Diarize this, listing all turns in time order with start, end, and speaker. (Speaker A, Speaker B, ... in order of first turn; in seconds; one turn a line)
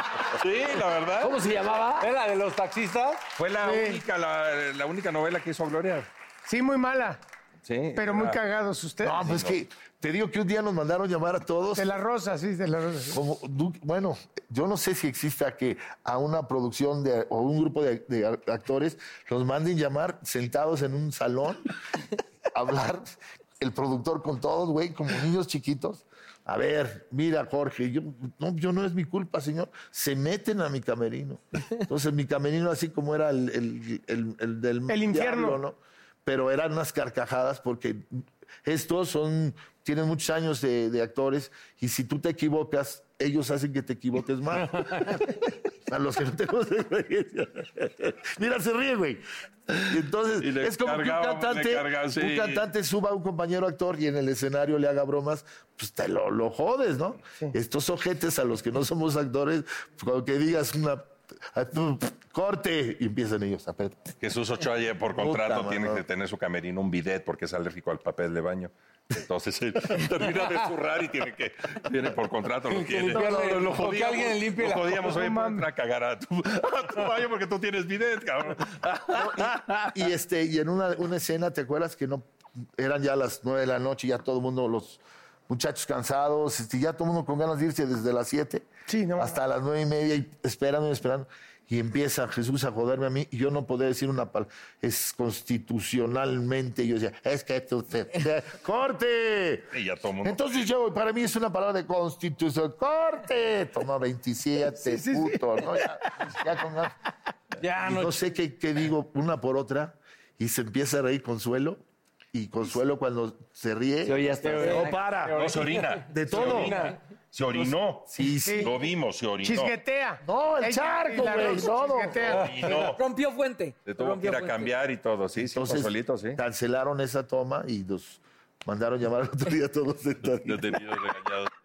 Speaker A: 0.2-1.4
Speaker B: 1.2-2.1
Speaker C: 2.0-3.3
Speaker A: 3.4-6.1
Speaker D: 3.6-4.0
Speaker D: 6.5-7.2
Speaker A: 7.7-8.4
Speaker D: 8.0-9.3
Speaker E: 9.0-11.9
Speaker A: 9.2-9.6
Speaker D: 11.8-13.2
Speaker E: 13.1-21.7
Speaker E: 22.5-23.1
Speaker E: 23.6-38.0
Speaker D: 34.9-35.6
Speaker E: 38.6-49.2
Speaker A: 49.7-52.7
Speaker E: 49.9-64.1
Speaker A: 64.2-80.0
Speaker E: 65.2-66.0
Speaker C: 72.7-75.7
Speaker E: 73.1-73.7
Speaker E: 79.1-82.2
Speaker E: 82.8-99.7
Speaker D: 88.9-89.4
Speaker A: 99.7-100.5
Speaker E: 100.2-106.9
Speaker D: 104.7-105.8
Speaker C: 107.6-108.2
Speaker E: 107.8-111.8
Speaker E: 112.3-115.3
Speaker B: 114.0-115.0
Speaker C: 114.4-117.0
Speaker A: 115.3-119.8
Speaker E: 116.0-116.8
Speaker E: 118.1-118.7
Speaker D: 118.4-118.7
Speaker D: 119.4-122.9
Speaker E: 120.2-122.6
Speaker A: 122.1-123.0
Speaker F: 122.7-124.7
Speaker A: 123.9-126.4
Speaker E: 125.4-130.8
Speaker A: 130.2-131.5